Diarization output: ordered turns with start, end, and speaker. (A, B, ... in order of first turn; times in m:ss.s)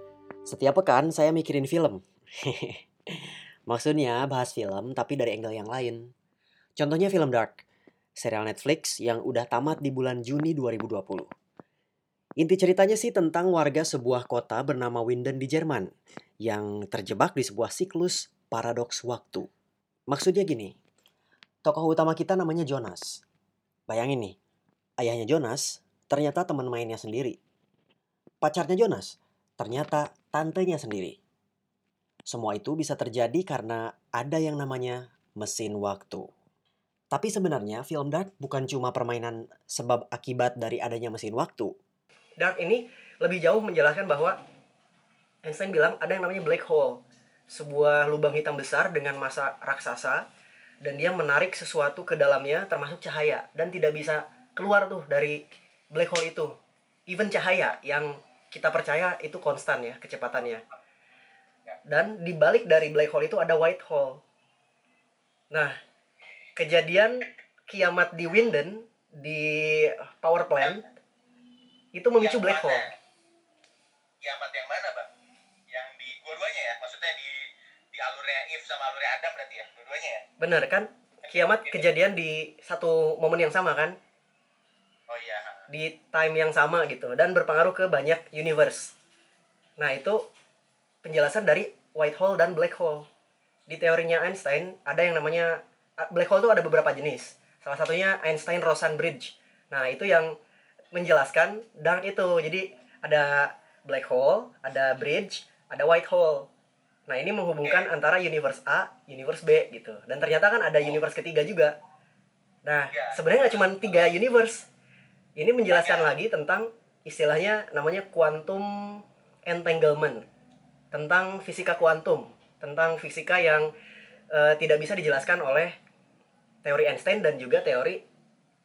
0:00.5-0:06.1 A
0:06.8-0:07.6 A
0:08.2-0:11.3 A
0:12.4-0:15.9 A
0:16.4-0:19.5 A
0:20.1-0:20.8 A
0:21.6-0:23.2 A
0:23.9-0:24.4 A
0:25.0-0:27.4 A
0:28.4-0:31.2 A
0:32.3-0:36.3 A
0:37.1-0:41.8 A
0:42.4-0:44.4 B
0:45.4-0:50.2 B
0:50.8-0:56.5 B
0:57.1-1:00.6 B
1:01.9-1:04.2 B
1:06.6-1:10.8 B
1:12.0-1:12.9 B
1:12.2-1:12.9 C
1:14.2-1:15.1 C
1:15.7-1:20.2 C
1:20.4-1:24.0 B
1:21.2-1:21.9 C
1:25.1-1:25.6 C
1:25.7-1:28.9 B
1:29.8-1:30.2 B
1:31.0-1:33.1 B
1:33.7-1:40.3 B
1:40.9-1:46.5 B
1:47.1-1:51.7 B
1:47.6-1:47.9 C
1:52.6-1:54.7 B
1:52.9-1:54.0 C
1:55.4-2:00.2 B
1:55.7-1:56.1 C
2:00.9-2:03.7 B
2:04.3-2:05.7 B
2:06.6-2:08.0 B